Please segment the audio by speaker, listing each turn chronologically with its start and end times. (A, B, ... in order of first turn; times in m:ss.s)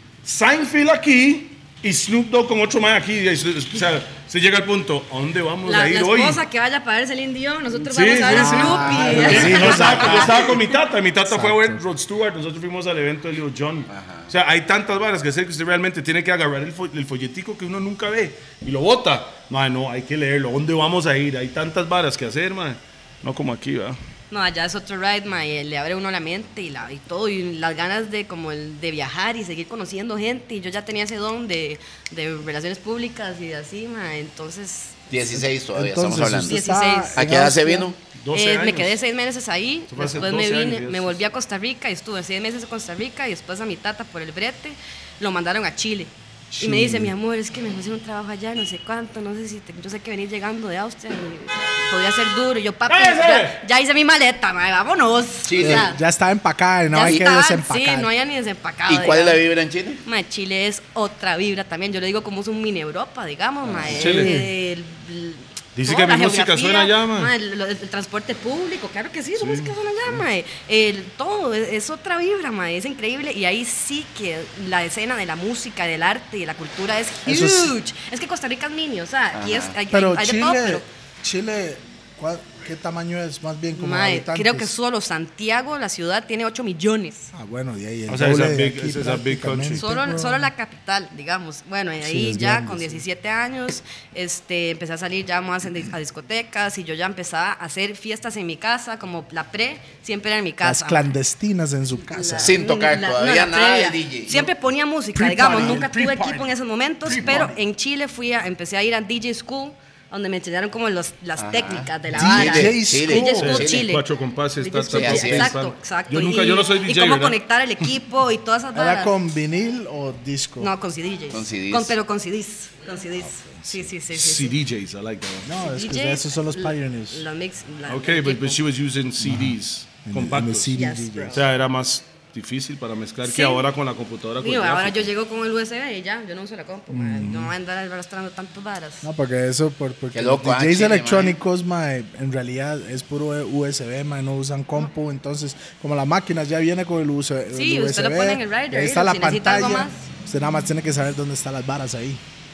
0:00.2-0:06.4 A
0:05.6-0:10.6 B
0:07.7-0:24.0 A
0:08.2-0:10.5 C
0:11.2-0:11.8 C
0:13.9-0:14.3 D
0:24.3-0:35.1 B
0:35.1-0:36.6 D
0:35.3-0:37.9 C
0:36.4-0:37.2 B
0:37.1-0:38.0 D
0:38.2-0:39.0 A
0:38.3-0:56.0 B
0:39.9-0:41.2 A
0:46.5-0:47.1 C
0:52.9-0:53.6 A
0:55.4-0:55.9 D
0:55.6-0:58.1 C
0:56.9-0:59.4 B
0:58.9-1:00.0 D
1:00.0-1:20.8 B
1:03.7-1:03.9 D
1:03.9-1:04.3 A
1:03.9-1:04.5 C
1:05.8-1:07.3 A
1:09.4-1:10.2 A
1:17.2-1:17.7 C
1:19.3-1:19.8 D
1:19.9-1:24.7 C
1:23.7-1:27.3 B
1:27.3-1:30.5 C
1:28.1-1:29.8 A
1:29.8-1:41.1 B
1:32.0-1:33.0 C
1:40.6-1:42.6 C
1:42.1-1:54.0 B
1:42.4-1:44.5 D
1:45.1-1:46.3 C
1:45.4-1:46.4 A
1:47.0-1:47.5 C
1:47.1-1:47.5 A
1:51.4-1:53.9 D
1:52.1-1:53.6 C
1:53.4-1:57.4 A
1:54.6-1:59.2 B
1:54.9-1:55.5 D
1:58.7-2:00.7 C
2:00.6-2:04.5 B
2:01.3-2:01.9 D
2:03.3-2:03.9 C
2:04.1-2:05.5 A
2:05.4-2:07.2 C
2:05.6-2:08.6 B
2:07.9-2:10.8 A
2:09.2-2:11.4 C
2:10.7-2:11.4 B
2:11.3-2:15.1 A
2:13.2-2:13.6 B
2:14.4-2:19.1 B
2:16.9-2:17.5 C
2:19.0-2:32.2 C
2:20.1-2:21.4 D
2:27.5-2:30.0 B